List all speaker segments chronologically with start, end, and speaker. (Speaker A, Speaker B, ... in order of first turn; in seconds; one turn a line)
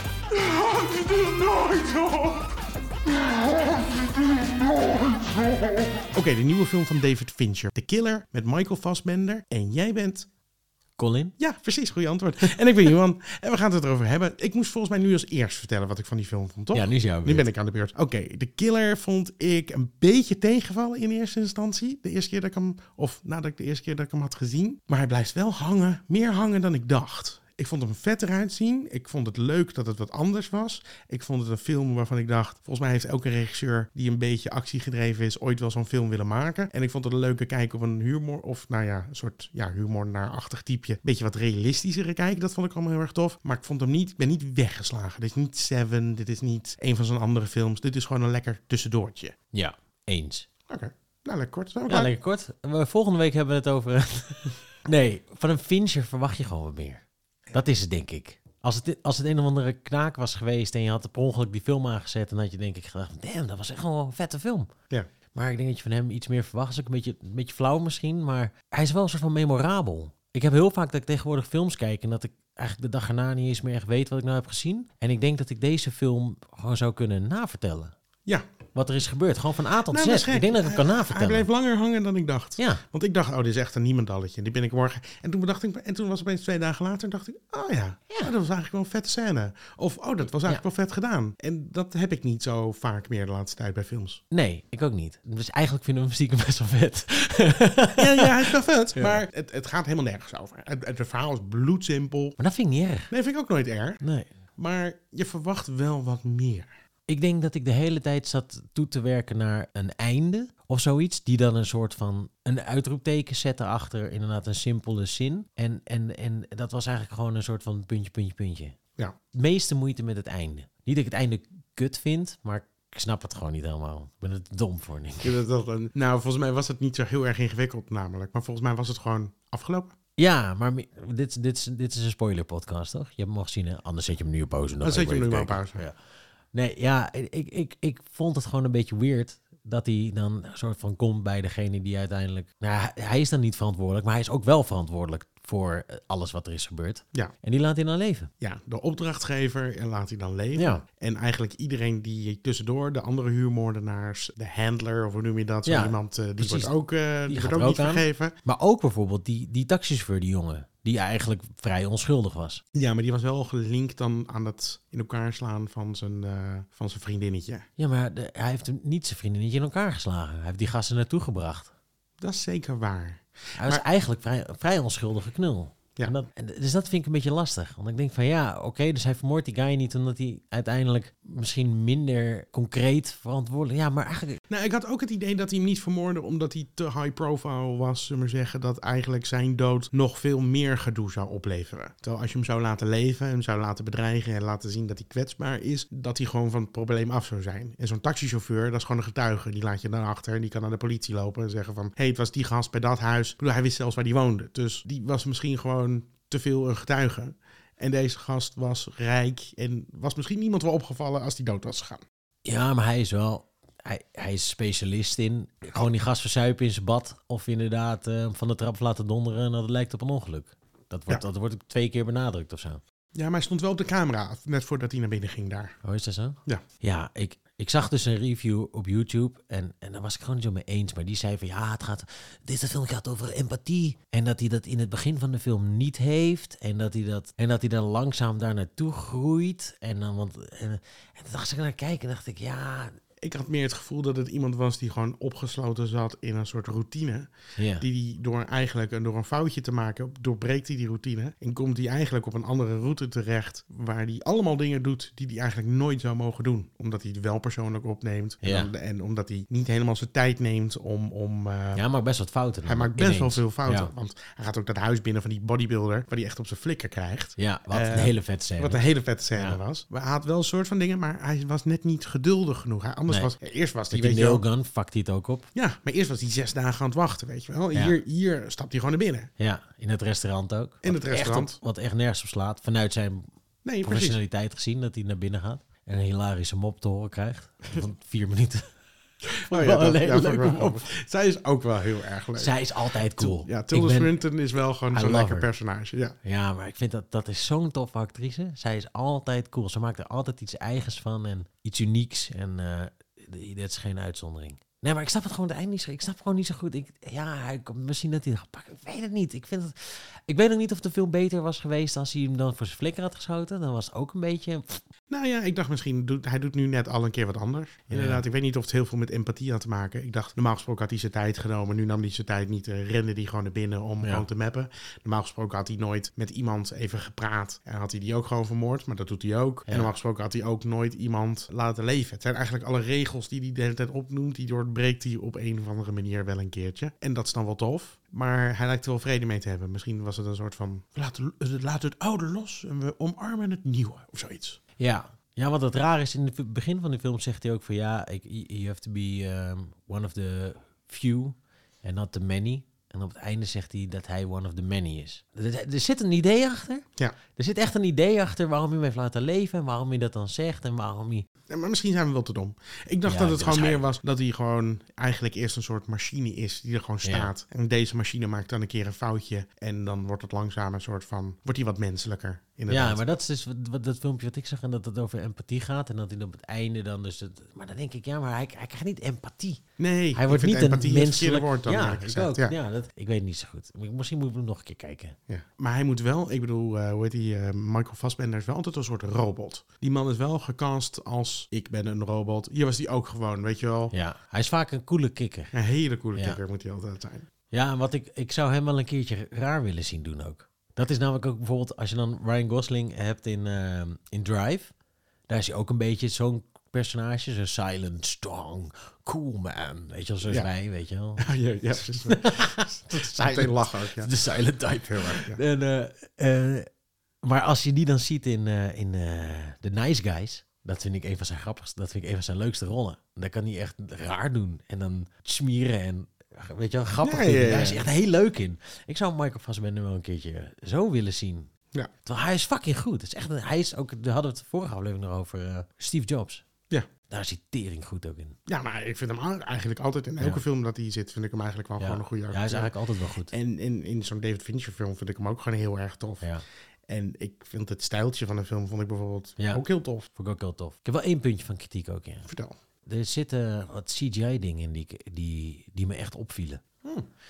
Speaker A: 0.4-2.4
Speaker A: 6.1-10.3
Speaker B: 11.0-11.3
Speaker A: 11.4-49.3
Speaker B: 16.7-17.5
Speaker B: 49.5-50.5
Speaker A: 50.7-52.1
Speaker B: 51.9-57.0
Speaker B: 57.5-64.7
Speaker B: 65.3-77.9
Speaker B: 78.7-81.5
Speaker A: 79.9-94.2
Speaker B: 82.6-82.8
Speaker B: 94.3-99.2
Speaker A: 98.0-102.4
Speaker B: 102.4-103.1
Speaker A: 103.1-104.0
Speaker B: 104.0-104.3
Speaker A: 104.6-106.7
Speaker B: 107.1-118.7
Speaker B: 119.3-125.4
Speaker A: 125.2-129.9
Speaker B: 130.2-135.9
Speaker A: 134.8-135.8
Speaker B: 136.5-148.3
Speaker A: 148.4-158.3
Speaker B: 150.5-150.8
Speaker B: 155.6-156.7
Speaker B: 157.3-162.6
Speaker A: 162.7-167.6
Speaker B: 167.8-171.7
Speaker A: 172.2-173.8
Speaker B: 173.6-184.4
Speaker A: 184.5-212.0
Speaker B: 212.4-222.8
Speaker A: 223.1-225.7
Speaker B: 225.8-242.9
Speaker A: 243.2-261.8
Speaker B: 247.6-247.8
Speaker B: 258.4-258.7
Speaker B: 261.7-263.9
Speaker A: 262.6-274.4
Speaker B: 267.4-269.6
Speaker B: 273.9-275.5
Speaker A: 275.5-279.3
Speaker B: 279.4-283.3
Speaker A: 280.8-281.6
Speaker A: 283.6-284.2
Speaker B: 283.8-288.6
Speaker B: 289.5-290.9
Speaker A: 289.5-296.1
Speaker B: 292.4-294.2
Speaker B: 294.9-295.5
Speaker B: 296.2-314.8
Speaker A: 315.1-344.6
Speaker B: 317.9-318.2
Speaker B: 344.8-361.2
Speaker A: 361.5-373.0
Speaker B: 363.0-363.8
Speaker B: 367.0-367.3
Speaker B: 372.7-379.6
Speaker A: 379.8-382.5
Speaker B: 380.1-385.2
Speaker A: 385.3-393.9
Speaker B: 393.9-395.5
Speaker A: 395.5-397.3
Speaker B: 396.1-396.4
Speaker B: 397.5-404.7
Speaker B: 405.3-411.3
Speaker A: 411.2-414.1
Speaker B: 412.1-416.6
Speaker A: 414.8-415.4
Speaker B: 417.2-431.5
Speaker A: 427.0-427.8
Speaker B: 432.0-436.4
Speaker B: 437.1-438.4
Speaker A: 438.5-442.7
Speaker B: 441.8-443.3
Speaker A: 443.3-446.3
Speaker A: 446.9-450.1
Speaker B: 449.4-452.3
Speaker A: 452.3-452.5
Speaker B: 452.9-456.6